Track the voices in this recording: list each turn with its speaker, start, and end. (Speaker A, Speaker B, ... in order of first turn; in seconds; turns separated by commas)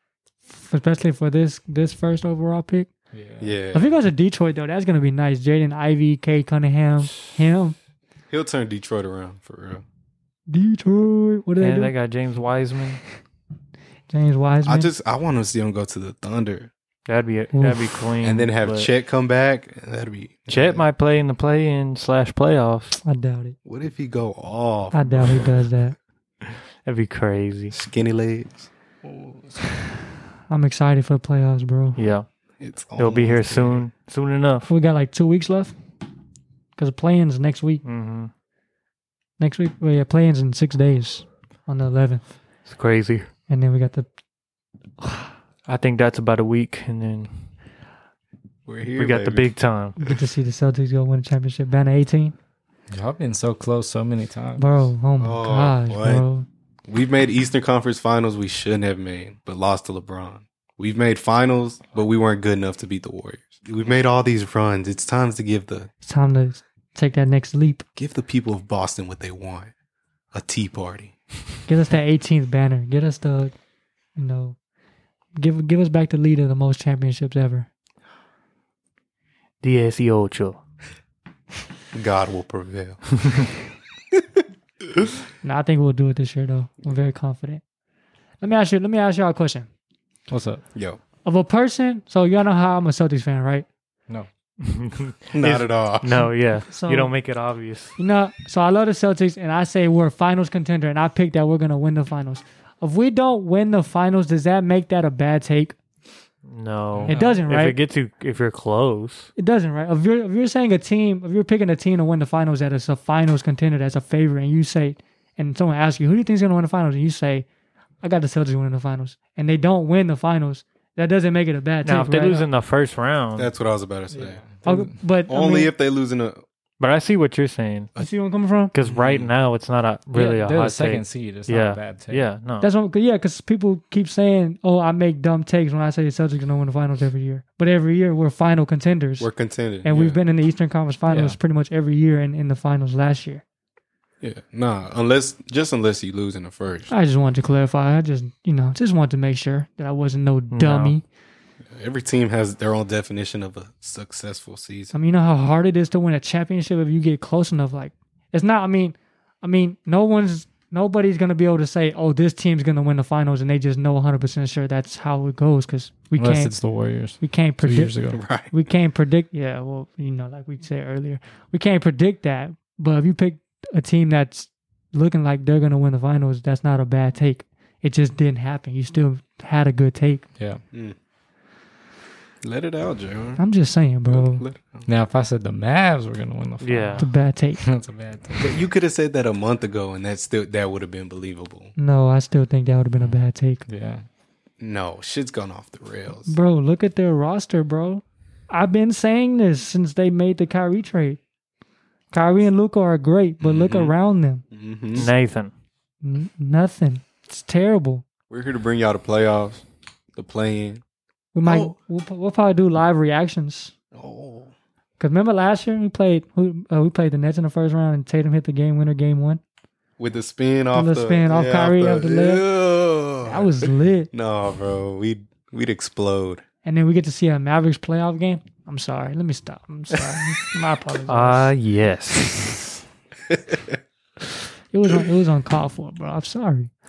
Speaker A: 0.5-2.9, Speaker B: 3.1-3.6, Speaker C: 3.4-4.0, Speaker A: 3.7-7.8, Speaker C: 8.3-9.8, Speaker A: 10.5-11.9, Speaker D: 11.6-13.0, Speaker A: 14.1-14.9, Speaker C: 14.7-16.7, Speaker D: 17.1-18.9, Speaker A: 17.5-17.8, Speaker C: 18.2-20.9, Speaker D: 20.5-23.0, Speaker A: 23.0-23.6, Speaker C: 23.6-25.6, Speaker A: 24.9-25.9, Speaker D: 26.8-27.7, Speaker C: 27.7-28.7, Speaker B: 29.0-29.6, Speaker A: 30.5-32.0, Speaker D: 31.9-32.3, Speaker C: 32.6-33.9, Speaker D: 33.0-34.7, Speaker A: 34.7-35.7, Speaker A: 36.8-37.8, Speaker D: 37.8-38.3, Speaker A: 39.4-42.2, Speaker D: 42.6-43.3, Speaker A: 43.5-44.1, Speaker D: 45.6-47.3, Speaker C: 48.6-49.5, Speaker D: 48.9-49.9, Speaker A: 50.0-52.3, Speaker B: 52.9-54.9, Speaker A: 54.6-56.5, Speaker C: 55.2-56.2, Speaker C: 56.9-65.9, Speaker A: 66.0-67.8, Speaker C: 68.0-69.7, Speaker C: 70.3-71.1, Speaker A: 71.7-73.5, Speaker A: 74.2-74.6, Speaker A: 75.3-77.7, Speaker D: 79.6-80.6, Speaker C: 81.9-83.2, Speaker A: 85.4-87.6, Speaker A: 88.4-89.7, Speaker B: 90.3-90.6, Speaker C: 90.7-91.0, Speaker A: 91.2-93.7, Speaker D: 94.6-98.0, Speaker C: 95.3-96.3, Speaker A: 96.7-97.1, Speaker A: 98.0-105.8, Speaker D: 106.5-109.3, Speaker B: 106.9-107.5, Speaker A: 107.1-107.8, Speaker A: 109.4-117.5, Speaker A: 118.0-122.5, Speaker D: 121.8-123.5, Speaker C: 123.3-124.4, Speaker B: 124.1-125.0, Speaker A: 124.6-125.7, Speaker C: 125.3-126.4, Speaker D: 126.8-127.9, Speaker A: 128.0-128.7, Speaker D: 128.7-132.7, Speaker B: 128.9-129.2, Speaker B: 130.1-132.3, Speaker A: 132.6-139.3, Speaker C: 139.2-140.2, Speaker A: 139.8-143.4, Speaker B: 141.1-141.4, Speaker C: 144.2-146.9, Speaker A: 146.9-151.0, Speaker D: 150.5-150.9, Speaker C: 151.7-154.9, Speaker A: 154.9-180.2, Speaker B: 166.2-168.2, Speaker C: 168.1-168.5, Speaker C: 182.4-183.4, Speaker A: 183.4-184.4, Speaker C: 184.1-184.9, Speaker B: 184.8-188.5, Speaker D: 186.6-187.1, Speaker A: 187.0-187.6, Speaker C: 188.4-191.7, Speaker A: 191.8-193.6, Speaker B: 193.0-194.1, Speaker C: 194.6-196.4, Speaker A: 196.3-201.2, Speaker A: 202.1-204.4, Speaker C: 203.4-203.9, Speaker C: 204.5-205.1, Speaker D: 204.9-205.5, Speaker A: 206.0-208.0, Speaker C: 208.3-210.8, Speaker A: 211.3-213.7, Speaker C: 211.4-211.7, Speaker C: 213.9-214.5, Speaker A: 215.0-219.4, Speaker C: 220.0-223.6, Speaker A: 220.7-222.4, Speaker A: 223.2-224.1, Speaker C: 224.1-226.4, Speaker A: 226.6-231.5, Speaker D: 231.1-232.7, Speaker C: 233.3-233.7, Speaker A: 234.7-236.7